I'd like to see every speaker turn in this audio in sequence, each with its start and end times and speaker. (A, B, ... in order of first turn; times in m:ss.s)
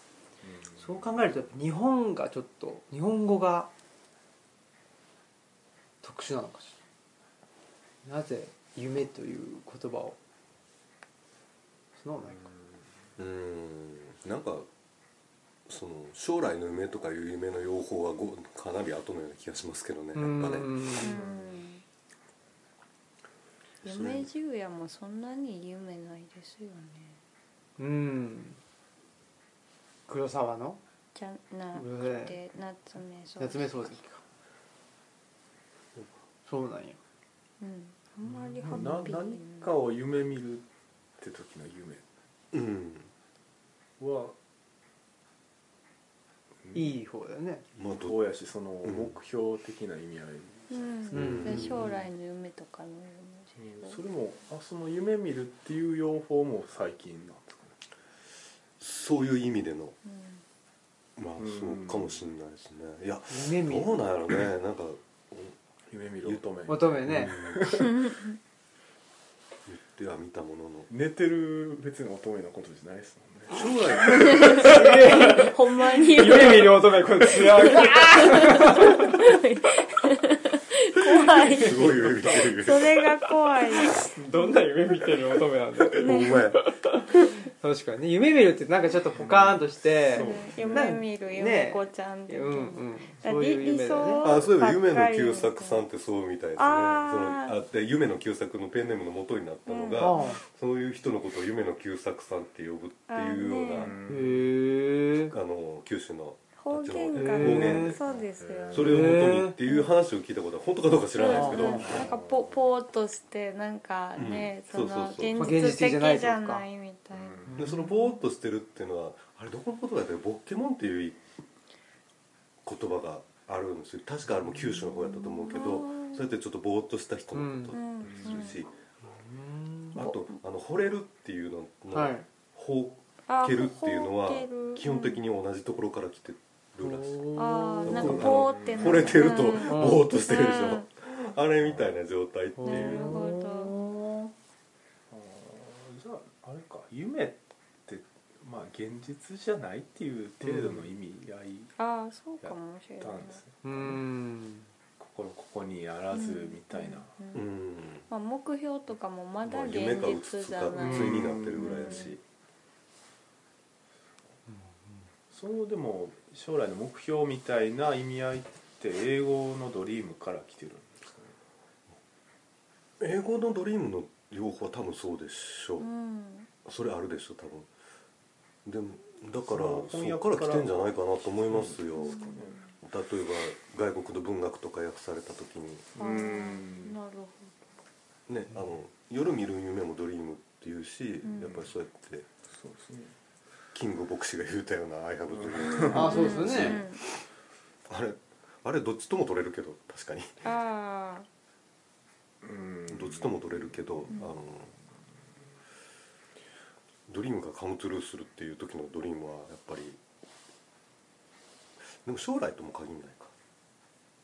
0:00.4-0:01.1 A
0:00.8-0:03.7 B
0:06.0-0:06.8 B
0:08.0-0:10.2 B
0:12.0-0:12.5 B
0:13.2-0:14.7 C
0:15.7-0:21.0 C
0:20.1-0:21.1 B
0:21.0-0:21.8 D
0:23.8-0:27.2 D
0:23.8-0:24.3 C
0:27.8-0:28.6 B
0:30.1-0:30.8 B
0:31.1-0:34.0 D
0:31.7-0:32.4 B
0:33.4-0:34.2 B
0:36.4-0:37.0 B
0:37.6-0:39.7 D
0:38.3-0:40.6 A
0:41.2-0:42.0 A
0:42.5-0:43.1 C
0:44.0-0:44.4 A
0:46.6-0:47.0 A
0:46.7-0:47.6 B
0:47.8-0:48.2 C
0:47.8-0:52.0 A
0:48.8-0:49.1 C
0:50.7-0:54.0 D
0:51.1-0:51.7 B
0:51.1-0:51.8 C
0:53.6-0:57.8 A
0:58.8-1:00.0 C
1:00.1-1:00.4 D
1:01.2-1:05.6 C
1:01.4-1:02.3 A
1:03.3-1:04.0 B
1:05.9-1:08.1 A
1:06.7-1:07.4 B
1:07.1-1:07.9 C
1:09.7-1:10.9 C
1:10.9-1:14.8 A
1:13.5-1:15.2 C
1:14.2-1:19.2 B
1:14.7-1:16.8 D
1:17.6-1:24.1 D
1:21.5-1:22.9 C
1:21.8-1:22.5 B
1:23.7-1:34.3 B
1:25.9-1:26.6 C
1:25.9-1:26.5 D
1:29.1-1:31.0 A
1:30.1-1:35.8 D
1:34.2-1:43.9 C
1:36.6-1:37.6 D
1:39.6-1:40.4 D
1:40.0-1:40.4 B
1:43.1-1:43.9 D
1:43.7-1:44.5 A
1:44.1-1:45.3 B
1:45.2-1:48.0 C
1:46.6-1:48.9 D
1:47.1-1:48.0 B
1:48.0-1:48.9 A
1:48.7-1:52.1 C
1:48.8-1:49.6 B
1:49.6-1:49.9 D
1:51.2-1:57.5 D
1:51.3-1:52.1 B
1:51.8-1:52.5 A
1:54.2-1:55.4 C
1:55.4-1:56.6 B
1:57.1-1:57.6 A
1:57.5-1:57.9 B
1:57.6-2:01.2 C
2:02.6-2:08.7 C
2:04.9-2:06.3 D
2:07.3-2:07.8 B
2:07.7-2:08.6 D
2:08.0-2:08.4 A
2:09.1-2:10.1 B
2:09.9-2:17.3 C
2:11.9-2:12.2 B
2:13.3-2:15.2 D
2:16.8-2:18.3 B
2:17.4-2:20.8 D
2:17.8-2:23.2 C
2:18.0-2:19.4 A
2:19.6-2:20.0 B
2:21.6-2:21.9 A
2:22.6-2:24.3 B
2:22.6-2:23.7 D
2:25.1-2:31.7 A
2:31.8-2:33.4 D
2:32.4-2:33.9 A
2:33.6-2:34.7 B
2:35.0-2:37.1 A
2:36.1-2:37.5 D
2:37.3-2:38.0 C
2:38.1-2:42.1 D
2:39.4-2:42.2 C
2:40.8-2:41.2 B
2:40.9-2:42.1 A
2:44.5-2:45.0 B
2:45.3-2:51.3 A
2:53.0-2:55.9 C
2:55.8-2:56.5 D
2:56.6-2:57.7 C
2:58.6-3:05.9 C
2:59.4-3:00.9 A
3:01.5-3:02.6 A
3:02.0-3:02.5 D
3:05.9-3:07.0 A
3:06.0-3:07.6 D
3:08.3-3:12.3 C
3:11.2-3:11.6 D
3:12.5-3:13.1 A
3:13.7-3:16.8 C
3:15.3-3:16.8 A
3:15.7-3:17.0 D
3:15.8-3:16.8 B
3:17.9-3:20.4 C
3:20.4-3:21.3 D
3:22.4-3:24.1 A
3:22.9-3:24.7 C
3:27.1-3:30.0 C
3:31.9-3:33.3 C